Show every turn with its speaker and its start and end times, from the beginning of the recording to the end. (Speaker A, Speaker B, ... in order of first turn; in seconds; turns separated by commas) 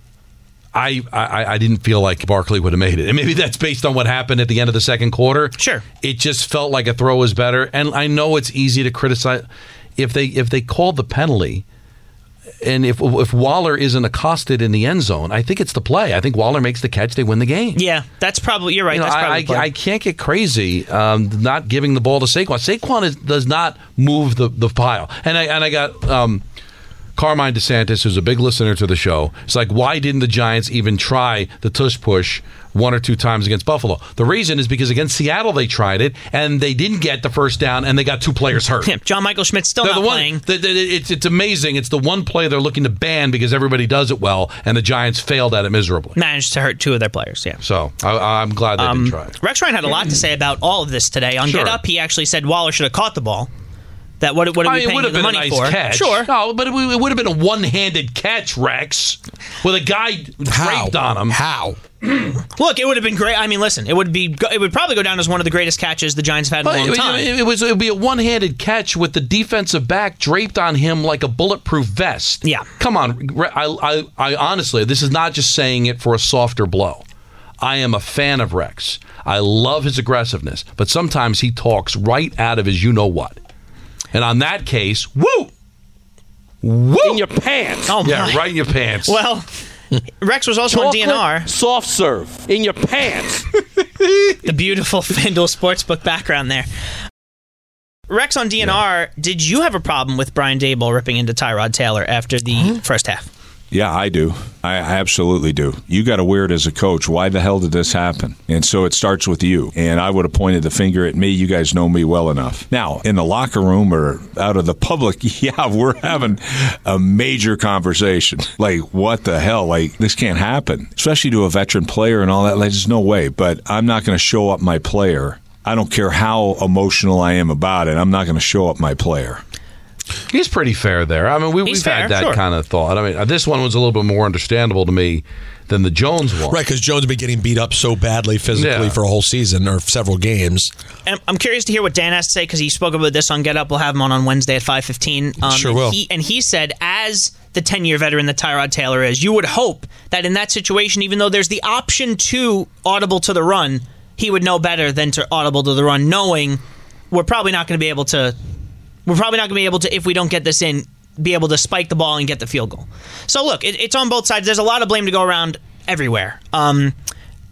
Speaker A: 0.7-9.4, Speaker B: 5.6-5.8, Speaker A: 10.0-11.6, Speaker A: 12.6-17.8, Speaker B: 17.7-19.7, Speaker A: 18.9-26.4, Speaker A: 27.2-38.9, Speaker B: 38.8-40.4, Speaker A: 39.8-46.2, Speaker B: 46.1-47.6, Speaker A: 47.6-49.4, Speaker B: 48.8-53.5, Speaker A: 51.5-51.8, Speaker B: 54.2-56.3, Speaker A: 54.6-61.4, Speaker C: 60.5-61.8, Speaker B: 62.5-67.3, Speaker A: 66.6-77.0, Speaker A: 77.6-83.4, Speaker A: 84.1-85.5, Speaker A: 86.6-87.2, Speaker D: 87.0-88.0, Speaker B: 87.9-88.5, Speaker A: 88.0-89.2, Speaker B: 89.0-89.5, Speaker B: 90.2-91.5, Speaker D: 90.7-93.5, Speaker B: 94.4-96.7, Speaker B: 98.1-103.3, Speaker E: 103.7-129.4, Speaker A: 130.3-136.6, Speaker B: 131.7-132.4, Speaker C: 136.5-140.7, Speaker A: 138.5-139.0, Speaker B: 141.1-158.3, Speaker C: 145.4-146.0, Speaker B: 159.1-166.9